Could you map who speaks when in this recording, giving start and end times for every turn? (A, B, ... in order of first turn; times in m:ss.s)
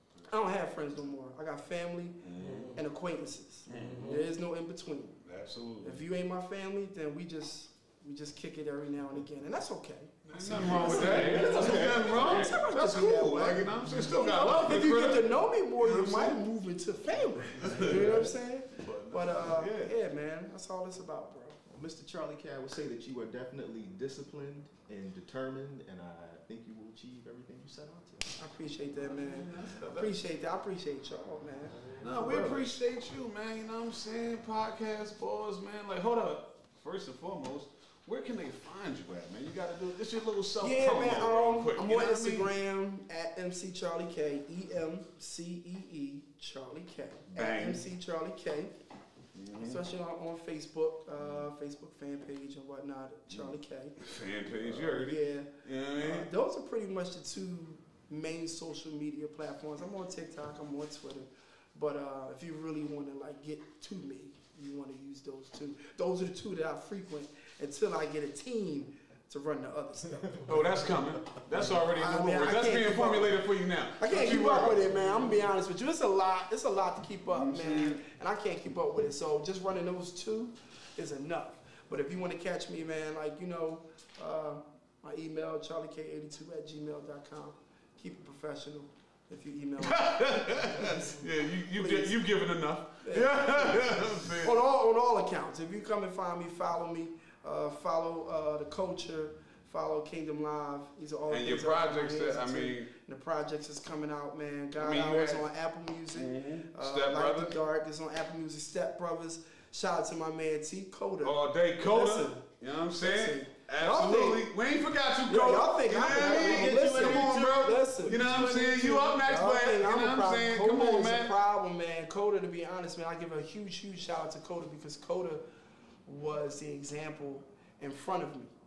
0:00.3-0:05.2 A
0:02.2-0:02.8 B
0:03.7-0:04.2 B
0:05.2-0:06.0 B
0:05.8-0:21.6 A
0:10.3-0:16.4 B
0:10.6-0:12.2 C
0:17.6-0:19.9 B
0:21.7-0:28.3 C
0:28.4-0:31.9 A
0:29.0-0:30.1 B
0:32.0-0:42.5 B
0:32.0-0:32.6 C
0:40.6-0:48.7 A
0:47.3-0:47.8 B
0:49.3-0:49.8 B
0:49.6-1:10.6 A
0:51.2-0:51.5 B
0:53.3-0:56.3 B
1:10.4-1:15.4 B
1:11.9-1:13.4 A
1:14.0-1:32.1 A
1:17.3-1:18.0 B
1:29.8-1:34.5 B
1:33.0-1:52.4 A
1:41.3-1:42.9 B
1:44.8-1:45.5 B
1:46.1-1:47.5 B
1:51.2-2:01.3 B
1:53.0-1:54.5 A
1:55.3-2:05.4 A
1:56.0-1:57.7 C
2:06.0-2:08.5 A